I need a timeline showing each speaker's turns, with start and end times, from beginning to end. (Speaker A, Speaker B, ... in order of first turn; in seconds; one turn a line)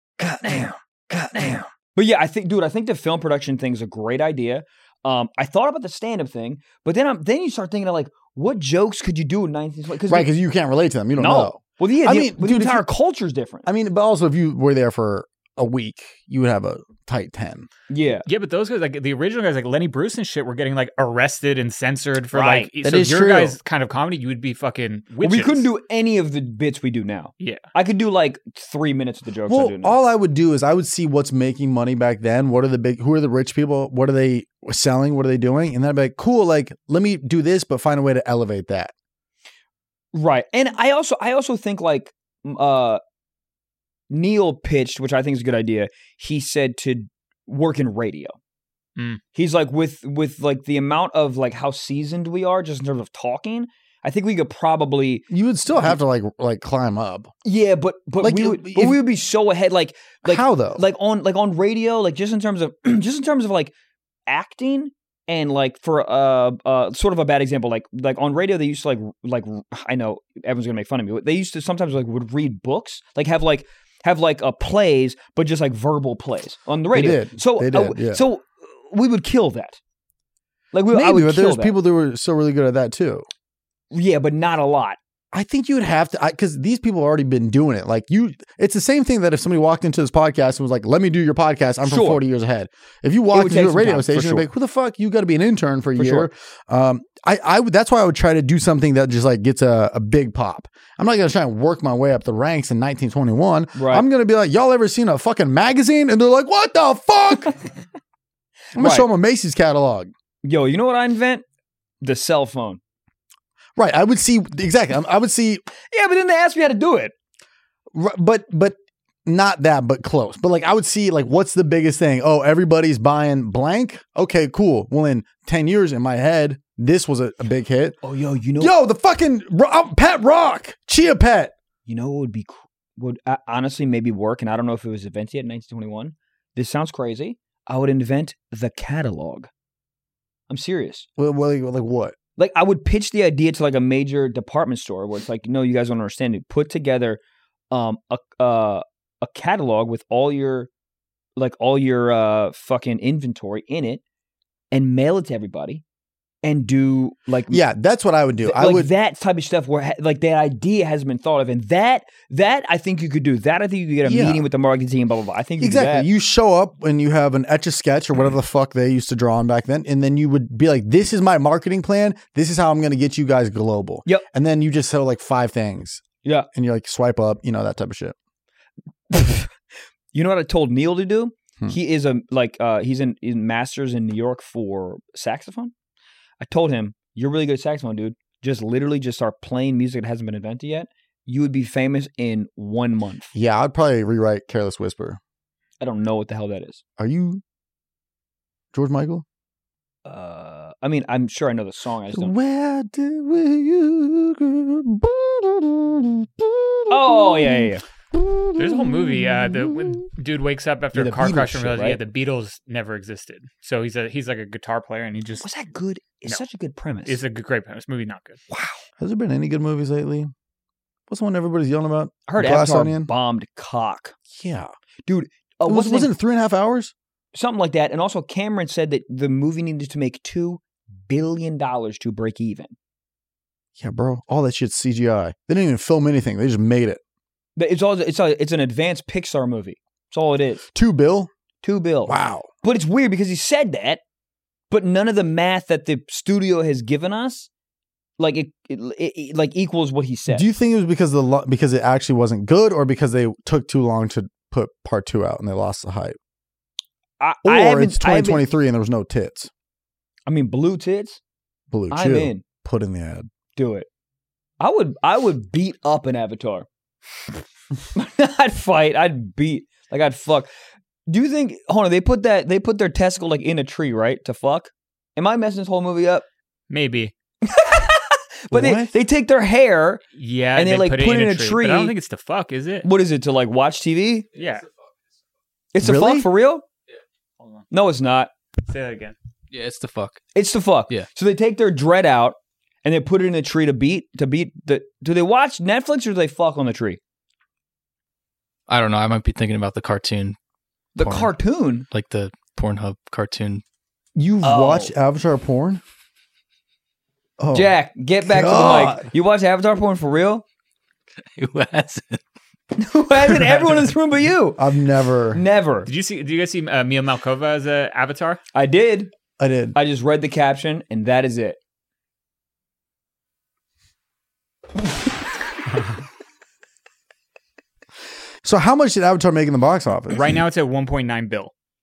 Speaker A: 0.2-10.3
Speaker B: 10.1-12.8
Speaker A: 11.2-13.7
Speaker B: 13.6-17.7
Speaker A: 17.9-18.2
Speaker C: 18.2-25.7
Speaker A: 22.3-22.7
Speaker B: 22.8-23.6
Speaker A: 25.2-29.9
Speaker B: 29.5-38.9
Speaker A: 40.1-43.0
Speaker A: 44.1-48.4
Speaker A: 49.3-55.2
Speaker B: 55.3-57.3
Speaker A: 57.4-63.7
Speaker B: 58.2-59.0
Speaker B: 60.2-60.8
Speaker A: 64.3-79.8
Speaker B: 76.9-78.2
Speaker A: 80.7-81.7
Speaker B: 80.9-83.2
Speaker A: 83.9-85.0
Speaker B: 85.3-107.6
Speaker A: 91.8-92.2
Speaker A: 93.3-94.5
Speaker A: 96.0-96.3
Speaker A: 103.7-104.0
Speaker B: 108.7-110.1
Speaker A: 108.8-109.1
Speaker A: 110.4-111.4
Speaker A: 112.0-112.8
Speaker B: 113.8-115.6
Speaker A: 115.9-117.1
Speaker B: 117.9-118.7
Speaker B: 119.2-128.0
Speaker A: 128.0-128.7
Speaker B: 128.6-131.5
Speaker A: 131.8-139.5
Speaker A: 140.5-141.1
Speaker B: 141.2-142.2
Speaker A: 142.4-147.2
Speaker A: 147.7-150.7
Speaker A: 151.3-154.0
Speaker A: 154.7-155.8
Speaker A: 156.4-157.6
Speaker B: 157.5-158.9
Speaker A: 158.4-166.1
Speaker B: 164.0-164.4
Speaker B: 165.6-178.1
Speaker A: 179.1-179.5
Speaker A: 180.1-185.7
Speaker A: 186.4-193.3
Speaker B: 193.3-195.2
Speaker A: 195.8-196.8
Speaker B: 197.0-197.4
Speaker B: 198.7-199.2
Speaker A: 200.0-202.3
Speaker B: 202.1-210.0
Speaker A: 206.9-207.8
Speaker C: 208.6-215.5
Speaker A: 210.9-212.0
Speaker A: 215.4-217.2
Speaker C: 217.0-218.4
Speaker B: 219.0-220.3
Speaker B: 221.1-223.1
Speaker A: 222.3-224.1
Speaker B: 224.3-224.7
Speaker A: 225.1-226.1
Speaker B: 225.6-226.9
Speaker A: 227.3-232.7
Speaker B: 233.8-237.0
Speaker A: 237.6-240.6
Speaker B: 240.7-241.3
Speaker A: 241.6-244.0
Speaker B: 242.1-242.5
Speaker A: 244.7-247.5
Speaker A: 248.2-250.4
Speaker B: 250.3-256.2
Speaker A: 257.2-258.4
Speaker B: 257.4-259.5
Speaker A: 260.2-261.2
Speaker B: 261.7-263.3
Speaker A: 261.9-262.4
Speaker A: 263.6-263.9
Speaker A: 264.6-266.7
Speaker A: 267.9-270.5
Speaker A: 271.1-276.2
Speaker C: 276.7-277.1
Speaker A: 277.4-280.0
Speaker B: 278.5-278.9
Speaker C: 280.1-282.9
Speaker A: 280.5-281.9
Speaker A: 282.8-284.3
Speaker C: 284.3-284.7
Speaker A: 285.7-286.6
Speaker B: 285.8-286.3
Speaker A: 287.7-288.3
Speaker C: 288.7-289.1
Speaker D: 289.5-290.2
Speaker A: 290.3-297.0
Speaker D: 298.7-300.4
Speaker A: 300.9-301.9
Speaker D: 301.0-301.3
Speaker D: 301.9-303.6
Speaker B: 304.1-305.8
Speaker A: 304.4-304.9
Speaker B: 307.4-307.7
Speaker A: 307.5-310.4
Speaker B: 308.3-309.1
Speaker D: 311.3-312.2
Speaker A: 312.8-314.6
Speaker B: 314.6-315.4
Speaker A: 315.3-315.9
Speaker C: 315.8-318.4
Speaker A: 318.5-319.1
Speaker B: 319.4-319.8
Speaker A: 319.7-321.6
Speaker B: 328.4-330.3
Speaker C: 330.1-331.5